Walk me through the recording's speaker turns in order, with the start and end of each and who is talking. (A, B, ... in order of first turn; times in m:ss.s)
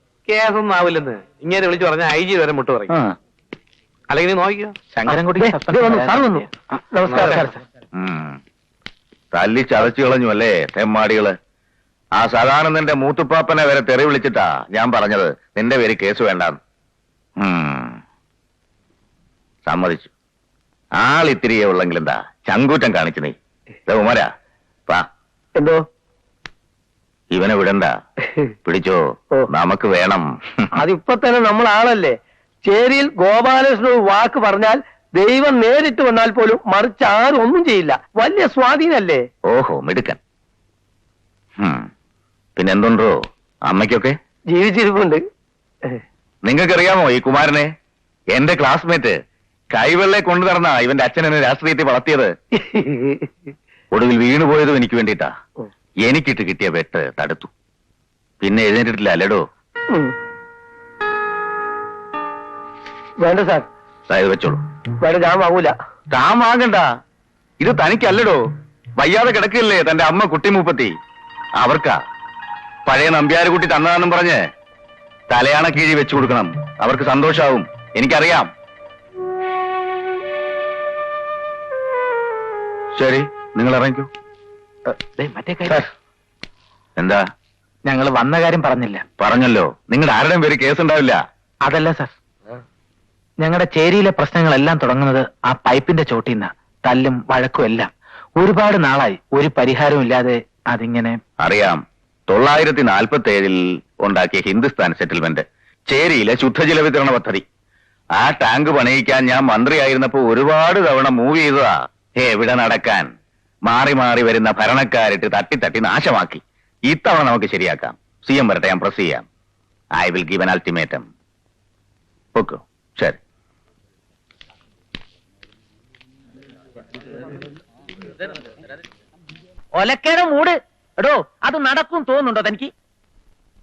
0:00.3-0:02.8 A
0:04.1-0:04.7 A
0:05.0-0:06.5 B
0:05.7-0:06.0 C
0:07.0-0:07.3 C
0:07.1-0:07.4 A
0:08.0-0:08.4 D
0:09.3-0:11.4 D
0:12.2-0:16.6 D
0:17.4-0:18.0 D
0:19.6-0:20.1 D
0:21.0-0:23.3 D
0:23.9-0:24.3 D
0:27.3-0:27.9 D
0:28.7-0:30.7 D
0:30.8-0:38.2 C
0:38.8-0:39.2 C
0:39.5-0:40.2 D
0:41.6-0:41.9 D
0:42.6-0:43.2 D
0:43.7-0:44.2 D
0:44.5-0:45.2 C
0:46.4-0:47.7 D
0:48.3-0:49.2 D
0:49.7-0:52.3 D
0:53.9-0:55.3 D
0:56.1-0:57.5 D
0:58.4-0:59.4 D
1:03.2-1:03.6 C
1:04.1-1:04.6 D
1:05.2-1:05.7 C
1:06.1-1:06.8 D
1:09.9-1:10.8 D
1:11.6-1:11.9 D
1:15.3-1:18.5 D
1:23.0-1:24.1 D
1:25.2-1:25.8 B
1:27.0-1:27.2 D
1:27.8-1:29.0 B
1:29.2-1:31.2 D
1:31.6-1:32.1 B
1:33.4-1:41.2 B
1:41.4-1:47.4 D
1:48.2-1:53.1 D
1:53.7-1:59.2 D
2:00.0-2:01.1 D
2:02.3-2:03.2 D
2:09.7-2:12.7 E